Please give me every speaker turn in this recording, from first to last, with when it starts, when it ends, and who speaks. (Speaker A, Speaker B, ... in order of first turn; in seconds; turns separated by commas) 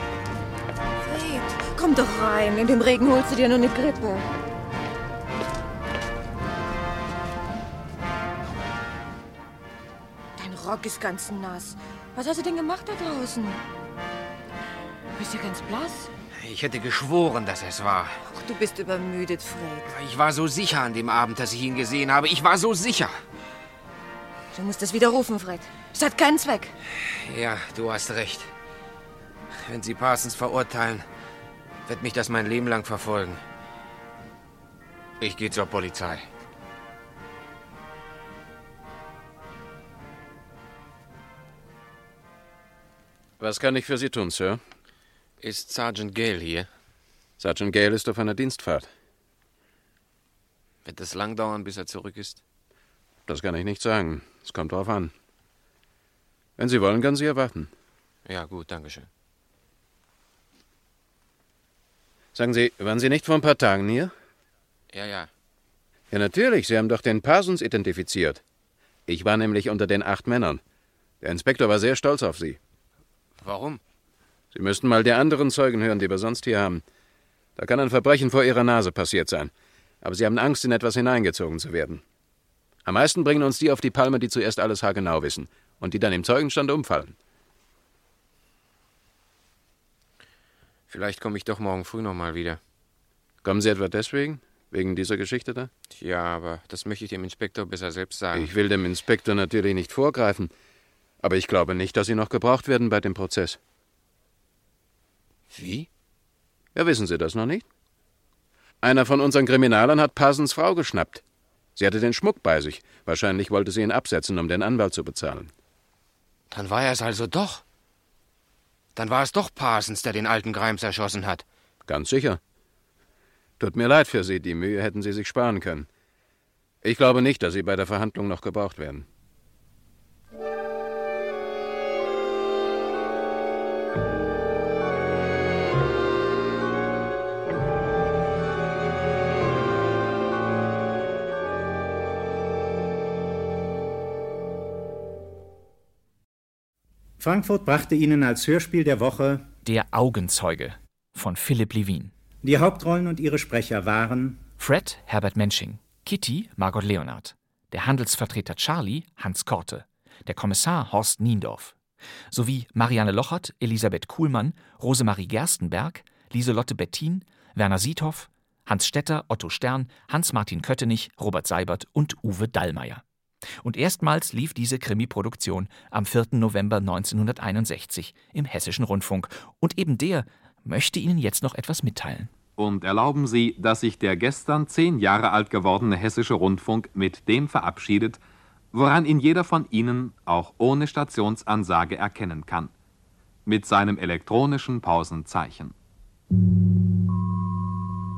Speaker A: 1.0-4.2, Speaker A: 10.4-13.6, Speaker A: 15.2-16.1, Speaker B: 16.3-18.2, Speaker A: 18.2-19.9, Speaker B: 19.9-23.2, Speaker A: 24.5-26.8, Speaker B: 27.1-28.5, Speaker B: 29.6-31.1, Speaker B: 31.9-33.4, Speaker B: 35.2-36.2, Speaker C: 43.4-44.6, Speaker B: 45.4-46.7, Speaker C: 47.4-48.9, Speaker B: 50.9-52.4, Speaker C: 53.3-55.1, Speaker C: 56.6-57.7, Speaker B: 58.3-59.1, Speaker C: 62.4-64.1, Speaker B: 64.9-65.3, Speaker C: 66.1-68.4, Speaker C: 69.1-70.6, Speaker C: 71.2-72.6, Speaker B: 73.4-73.8, Speaker C: 74.5-76.8, Speaker C: 77.6-82.0, Speaker C: 82.8-87.2, Speaker B: 90.9-92.6, Speaker C: 93.4-95.7, Speaker B: 95.9-98.5, Speaker C: 98.3-100.5, Speaker C: 101.2-103.6, Speaker B: 105.5-105.9, Speaker C: 106.8-107.6, Speaker C: 108.8-111.2, Speaker C: 111.8-115.5, Speaker B: 116.5-117.6, Speaker B: 119.0-121.4, Speaker C: 121.9-122.4, Speaker C: 123.6-125.9, Speaker C: 126.8-129.1, Speaker D: 147.2-149.5, Speaker E: 149.7-152.1, Speaker D: 152.4-154.4, Speaker E: 154.6-161.8, Speaker E: 162.3-173.0, Speaker E: 173.6-182.3, Speaker F: 182.6-188.2, Speaker F: 188.7-192.7, Speaker F: 193.5-195.7